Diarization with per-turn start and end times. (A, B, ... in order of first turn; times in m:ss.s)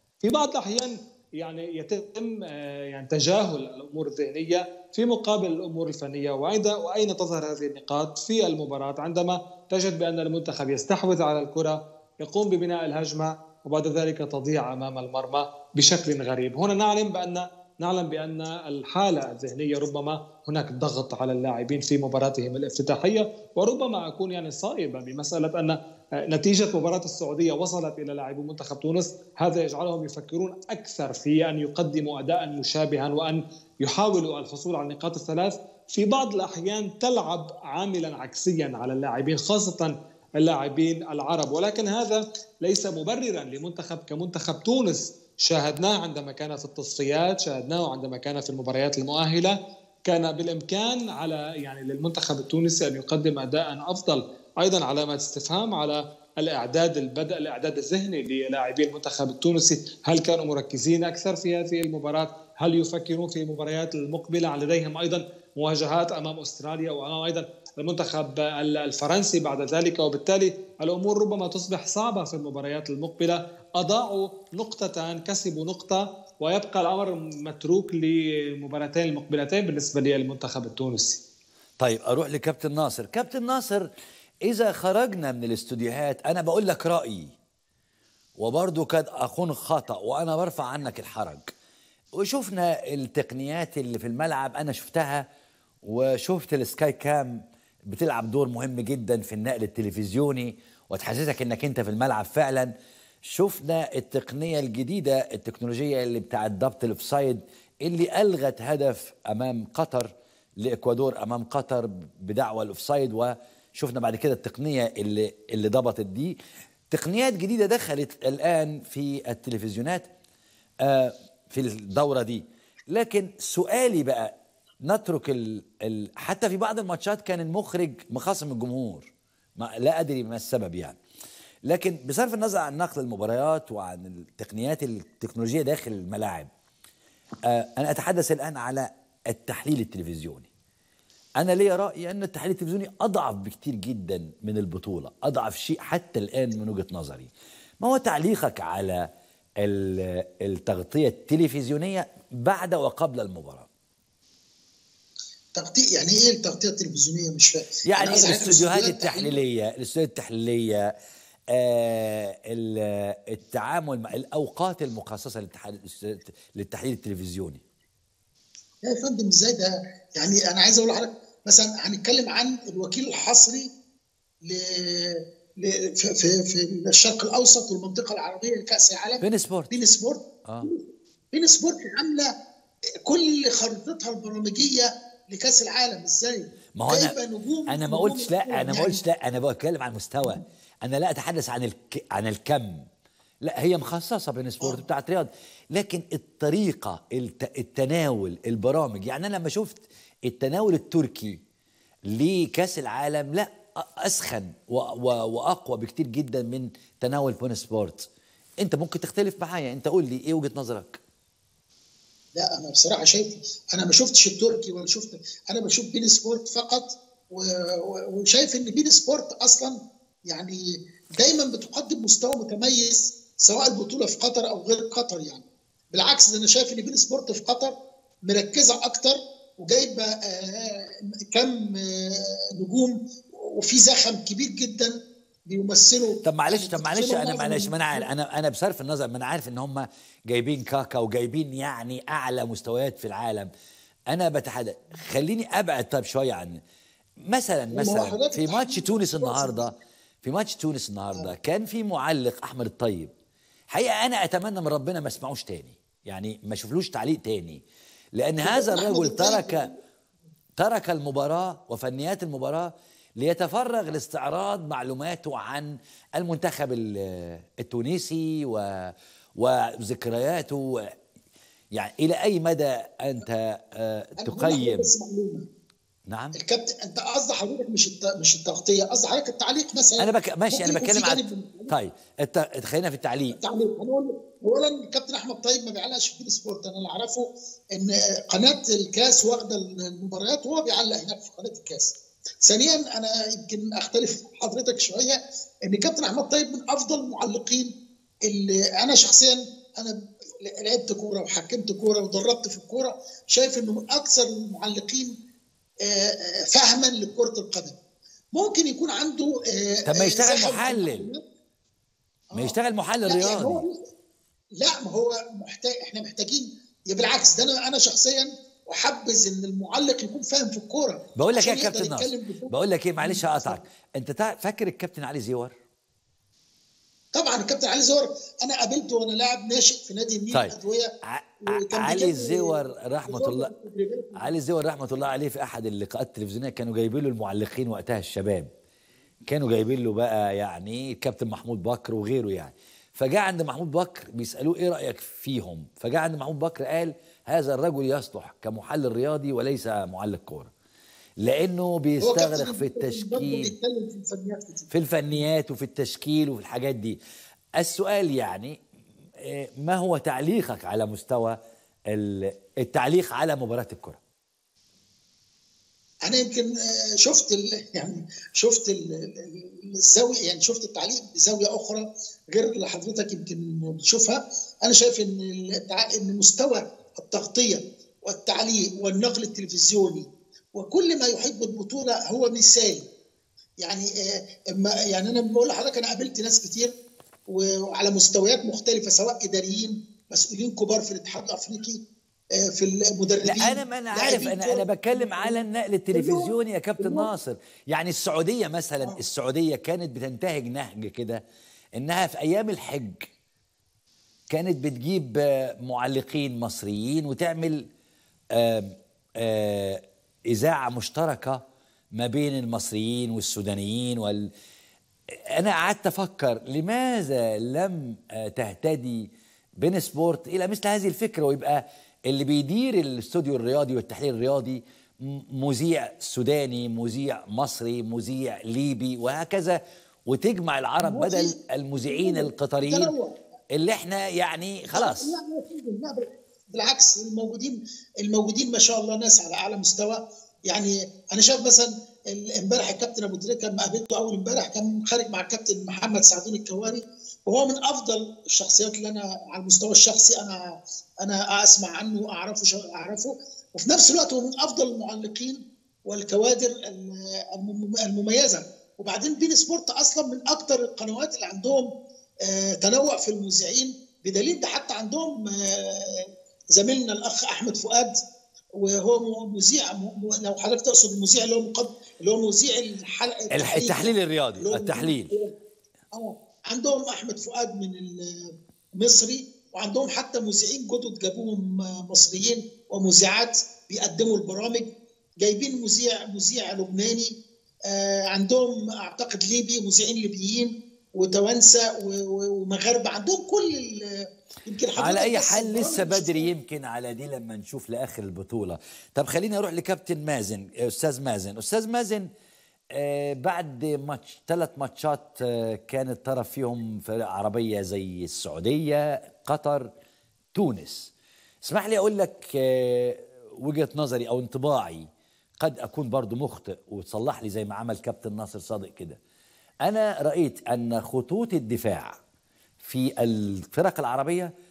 0:00.2-1:21.2 A
1:21.8-1:23.9 B
1:24.5-1:27.3 B
1:28.4-1:31.5 B
1:32.2-1:35.2 B
1:35.8-1:42.7 B
1:43.3-1:56.4 B
1:56.9-2:00.1 B
2:00.8-2:11.0 B
2:11.7-2:16.5 B
2:17.5-2:20.5 B
2:21.4-2:27.3 B
2:27.8-2:29.1 B
2:29.6-2:33.7 B
2:35.5-2:39.4 C
2:37.9-2:40.9 B
2:41.5-2:47.6 B
2:48.8-2:53.7 C
2:54.4-3:02.3 C
2:59.2-2:59.8 B
3:00.4-3:00.7 B
3:03.0-3:09.0 C
3:06.8-3:07.2 B
3:07.7-3:12.9 B
3:13.4-3:21.4 B
3:22.1-3:28.1 B
3:28.6-3:31.0 B
3:32.4-3:40.6 C
3:41.1-3:47.8 C
3:48.3-3:55.0 C
3:55.5-3:58.1 C
3:56.2-4:03.5 B
4:04.1-4:06.6 B
4:07.2-4:13.1 B
4:07.7-4:09.8 C
4:13.7-4:17.6 B
4:18.2-4:19.7 B
4:18.4-4:19.8 C
4:20.6-4:30.9 B
4:31.7-4:34.9 B
4:34.2-4:35.5 C
4:36.1-4:36.4 B
4:36.3-4:41.7 C
4:40.0-4:43.4 B
4:43.3-4:57.7 C
4:58.3-5:05.2 C
5:05.8-5:07.8 C
5:08.4-5:11.2 C
5:09.9-5:11.1 B
5:12.3-5:13.8 C
5:12.4-5:13.6 B
5:14.6-5:23.6 C
5:21.2-5:25.5 B
5:27.1-5:30.9 C
5:31.1-5:33.5 B
5:31.5-5:34.3 C
5:34.2-5:38.5 B
5:39.3-5:50.5 B
5:51.2-5:53.5 B
5:52.0-5:54.7 C
5:54.7-5:57.0 B
5:57.6-5:58.6 B
5:59.2-6:01.4 B
6:01.9-6:04.0 B
6:06.0-6:22.9 C
6:23.6-6:26.7 C
6:27.3-6:31.8 C
6:32.5-6:37.1 C
6:33.2-6:41.2 B
6:41.8-6:43.1 B
6:44.3-6:47.7 B
6:48.4-6:51.4 B
6:51.9-6:54.3 B
6:55.4-7:12.9 B
7:10.8-7:11.4 C
7:11.9-7:13.2 C
7:13.5-7:15.1 B
7:14.7-7:41.7 C
7:42.2-7:48.0 C
7:48.6-7:55.3 C
7:53.3-7:55.1 B
7:55.9-8:07.2 C
8:07.7-8:16.3 C
8:14.8-8:22.1 B
8:22.7-8:29.7 B
8:30.3-8:30.9 B
8:31.4-8:34.9 B
8:35.4-8:39.0 B
8:39.6-8:42.0 B
8:42.6-8:44.3 B